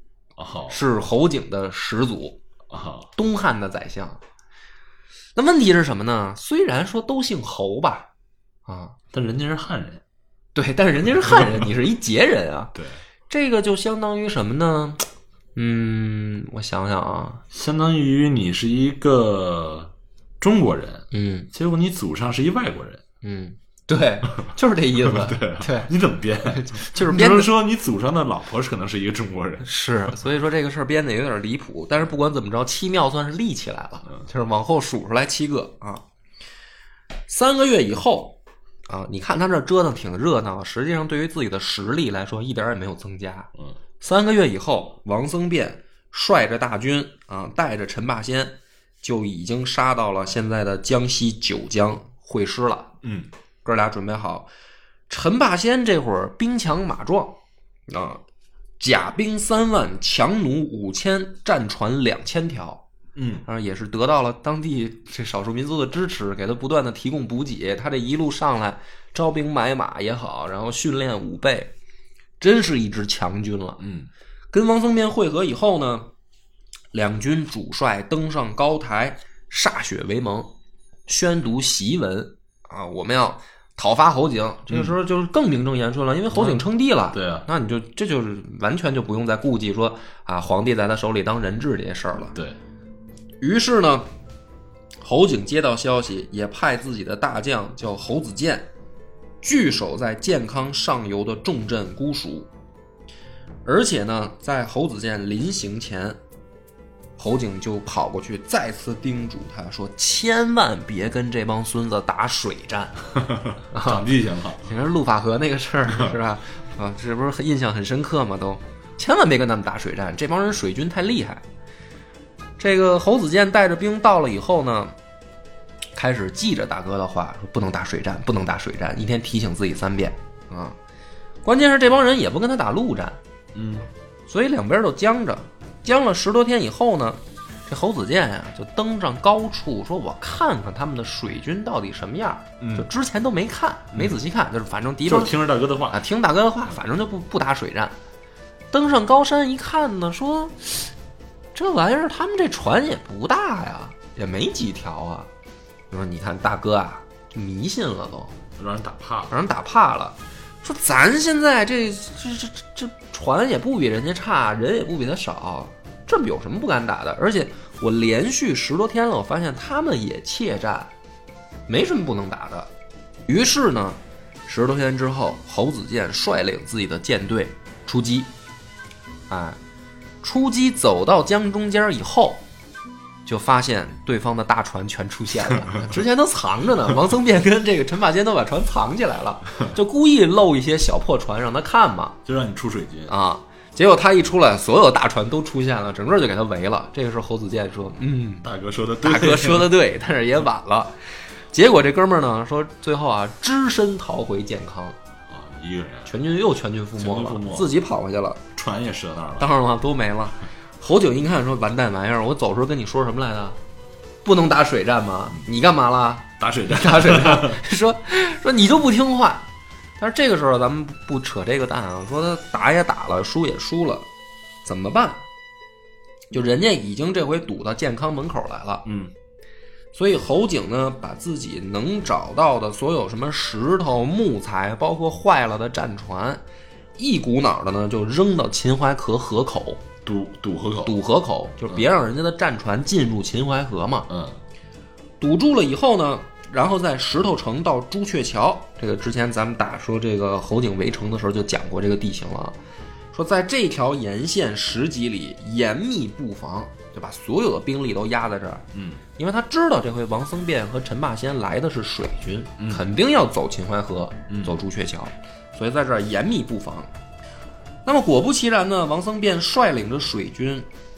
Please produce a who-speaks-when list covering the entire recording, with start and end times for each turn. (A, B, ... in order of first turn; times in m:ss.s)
0:00.4-0:00.8 A
0:00.7-0:02.4 B
0:02.7-0:03.1 A
0:03.2-0:04.2 B
0:05.4-0:08.1 B
0:08.7-0:09.0 B
0:09.1-0:10.0 A
0:10.5-0:12.7 B
0:11.2-0:11.7 A
0:13.3-0:17.4 B
0:17.5-0:23.0 A
0:21.1-0:21.5 B
0:23.2-0:25.9 B
0:25.0-0:29.7 A
0:26.4-0:27.5 B
0:29.6-0:36.0 B
0:37.3-0:52.9 B
0:53.0-0:53.3 A
0:53.6-0:54.5 B
0:55.1-0:58.2 B
0:58.8-1:02.8 B
1:03.1-1:03.4 A
1:03.4-1:11.7 B
1:12.4-1:13.8 B
1:13.8-1:14.1 A
1:14.5-1:16.1 B
1:16.9-1:20.5 B
1:21.1-1:32.4 B
1:26.3-1:27.5 A
1:33.4-1:34.1 B
1:35.0-1:38.7 B
1:39.4-1:42.5 B
1:43.6-1:46.2 B
1:47.2-1:53.1 B
1:53.2-1:54.7 A
1:53.7-1:54.0 B
1:54.6-2:01.4 B
2:02.6-2:04.9 B
2:05.9-2:10.8 B
2:11.4-2:13.2 B
2:13.5-2:13.9 A
2:14.3-2:25.3 B
2:22.6-2:22.9 A
2:25.0-2:26.0 A
2:25.9-2:28.0 B
2:28.7-2:30.9 B
2:31.5-2:35.3 B
2:35.9-2:38.4 B
2:38.6-2:39.3 A
2:39.3-2:50.9 B
2:51.7-2:52.7 B
2:53.3-2:58.3 B
2:59.3-2:59.6 B
3:00.2-3:02.4 B
3:03.2-3:12.2 B
3:12.2-3:13.1 A
3:13.1-3:18.5 B
3:18.4-3:19.7 A
3:19.0-3:21.0 B
3:21.5-3:25.0 B
3:25.3-3:26.1 A
3:26.0-3:28.4 B
3:27.0-3:27.7 A
3:28.5-3:29.5 A
3:29.4-3:33.6 B
3:34.2-3:39.5 B
3:36.4-3:37.6 A
3:40.0-3:44.1 B
3:44.6-3:45.2 B
3:46.3-3:48.8 B
3:48.8-3:49.1 A
3:49.9-3:56.4 B
3:57.0-3:59.8 B
4:00.0-4:01.0 A
4:00.8-4:04.1 B
4:04.1-4:04.4 A
4:05.2-4:12.6 B
4:13.1-4:18.6 B
4:18.7-4:19.0 A
4:19.2-4:26.9 B
4:22.6-4:22.8 A
4:24.3-4:24.6 A
4:27.8-4:30.7 B